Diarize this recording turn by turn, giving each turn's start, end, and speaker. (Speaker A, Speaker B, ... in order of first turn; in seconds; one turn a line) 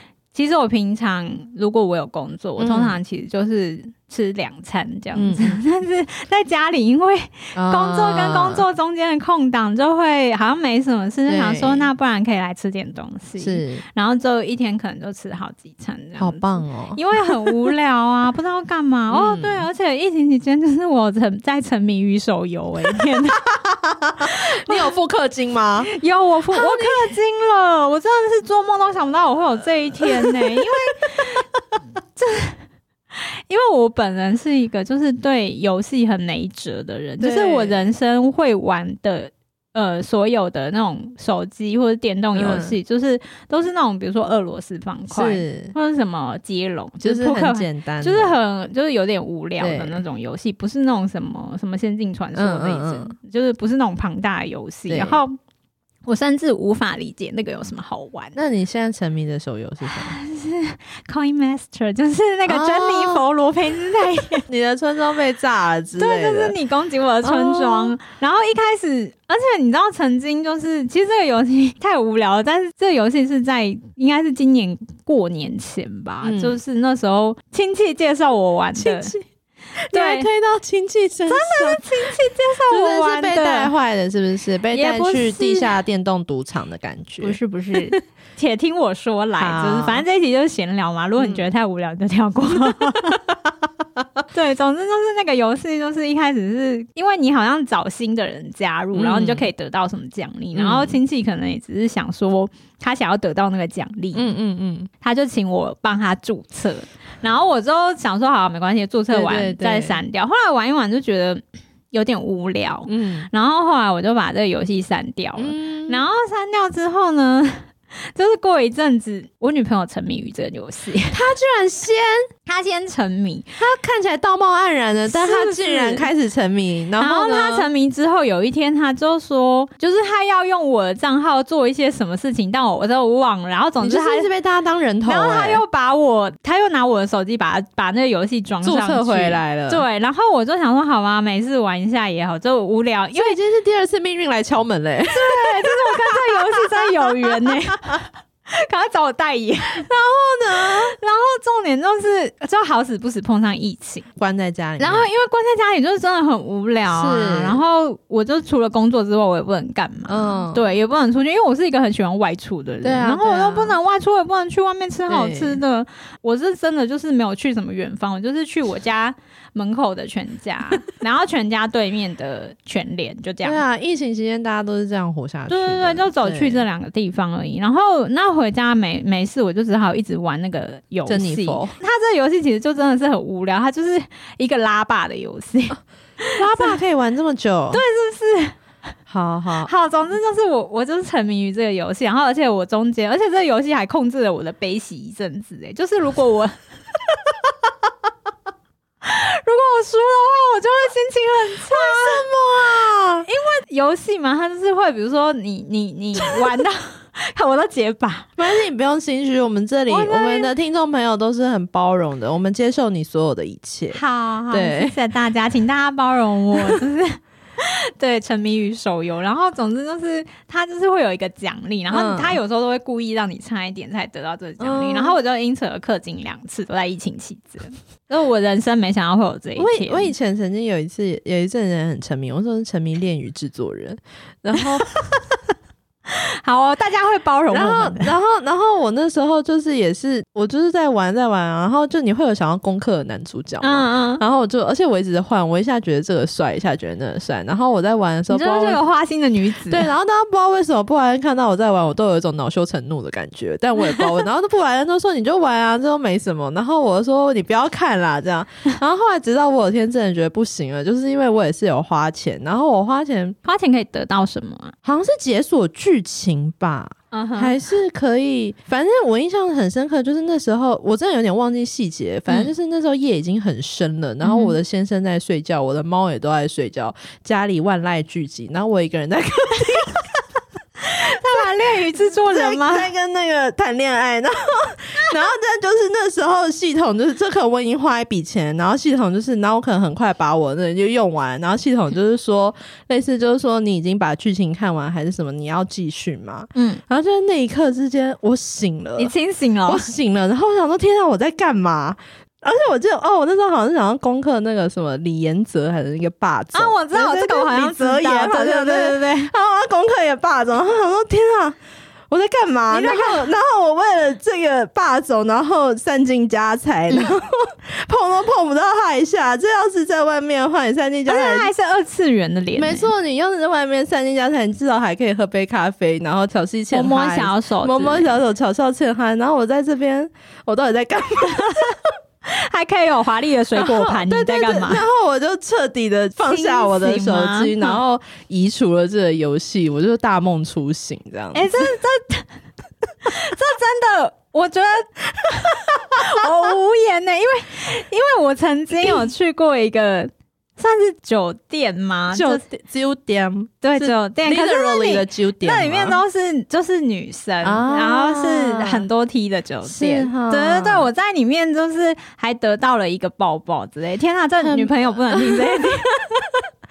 Speaker A: 0.3-23.4
Speaker B: 2.6-3.0
Speaker B: 5.1-5.6
Speaker B: 7.5-8.6
Speaker B: 11.3-11.9
Speaker B: 13.4-13.8
Speaker B: 16.2-17.7
Speaker B: 19.1-19.7
Speaker B: 23.4-25.9
Speaker A: 24.3-24.9
Speaker A: 25.9-31.4
Speaker B: 26.5-27.1
Speaker B: 30.0-31.1
Speaker A: 32.1-32.6
Speaker A: 33.1-55.3
Speaker B: 37.2-37.8
Speaker B: 42.3-42.7
Speaker B: 45.1-45.7
Speaker B: 47.0-48.4
Speaker B: 49.6-50.0
Speaker B: 52.4-53.1
Speaker B: 54.9-55.2
Speaker A: 56.0-58.4
Speaker B: 58.4-60.2
Speaker A: 59.8-64.5
Speaker B: 62.5-63.2
Speaker B: 64.5-66.5
Speaker A: 66.0-79.2
Speaker B: 67.2-68.0
Speaker B: 76.2-76.6
Speaker B: 78.8-79.2
Speaker B: 79.8-82.1
Speaker A: 79.9-80.3
Speaker A: 81.3-83.7
Speaker B: 82.7-88.0
Speaker A: 84.7-85.8
Speaker A: 87.2-93.2
Speaker B: 89.4-90.0
Speaker B: 91.2-91.5
Speaker B: 92.7-93.2
Speaker A: 94.3-104.2
Speaker B: 98.9-99.5
Speaker B: 100.5-101.0
Speaker B: 104.1-104.9
Speaker A: 105.0-121.2
Speaker B: 109.1-110.0
Speaker B: 112.9-113.3
Speaker B: 115.4-116.0
Speaker B: 121.1-122.3
Speaker A: 122.5-123.5
Speaker B: 123.6-127.7
Speaker A: 125.1-126.1
Speaker A: 127.0-134.3
Speaker B: 133.8-135.6
Speaker A: 135.1-143.3
Speaker B: 138.6-139.8
Speaker B: 143.1-148.0
Speaker A: 145.1-149.9
Speaker B: 149.7-150.9
Speaker A: 150.5-154.1
Speaker B: 154.2-155.1
Speaker A: 154.8-173.6
Speaker B: 156.9-157.6
Speaker B: 160.1-160.7
Speaker B: 162.8-163.8
Speaker B: 165.1-165.6
Speaker B: 173.4-176.6
Speaker A: 175.5-186.7
Speaker B: 181.1-181.7
Speaker B: 186.3-187.8
Speaker A: 187.7-188.6
Speaker B: 189.1-189.7
Speaker A: 189.6-196.6
Speaker A: 199.0-202.2
Speaker B: 201.7-203.3
Speaker A: 203.2-208.3
Speaker B: 208.4-214.0
Speaker A: 209.9-210.5
Speaker A: 213.9-230.1
Speaker B: 214.5-214.9
Speaker B: 221.9-222.4
Speaker B: 224.6-225.2
Speaker B: 229.6-234.9
Speaker A: 234.6-234.9
Speaker A: 236.1-238.1
Speaker B: 237.5-248.8
Speaker A: 243.6-244.2
Speaker A: 248.3-249.9
Speaker B: 249.7-263.4
Speaker A: 263.4-264.7
Speaker B: 264.8-280.2
Speaker A: 267.1-267.5
Speaker A: 274.2-274.6
Speaker A: 280.8-282.9
Speaker B: 282.0-299.1
Speaker A: 296.5-296.8
Speaker A: 299.0-299.9
Speaker B: 299.7-311.6
Speaker A: 306.5-309.3
Speaker B: 312.1-321.5
Speaker A: 312.7-313.3
Speaker A: 321.1-322.9
Speaker B: 322.6-331.8
Speaker A: 326.7-328.1
Speaker A: 331.2-334.8
Speaker B: 333.5-341.7
Speaker A: 336.2-337.8
Speaker A: 341.3-342.3
Speaker A: 343.0-352.4
Speaker B: 352.1-356.0
Speaker A: 353.6-366.1
Speaker B: 357.4-358.9
Speaker B: 359.6-360.9
Speaker B: 364.4-366.4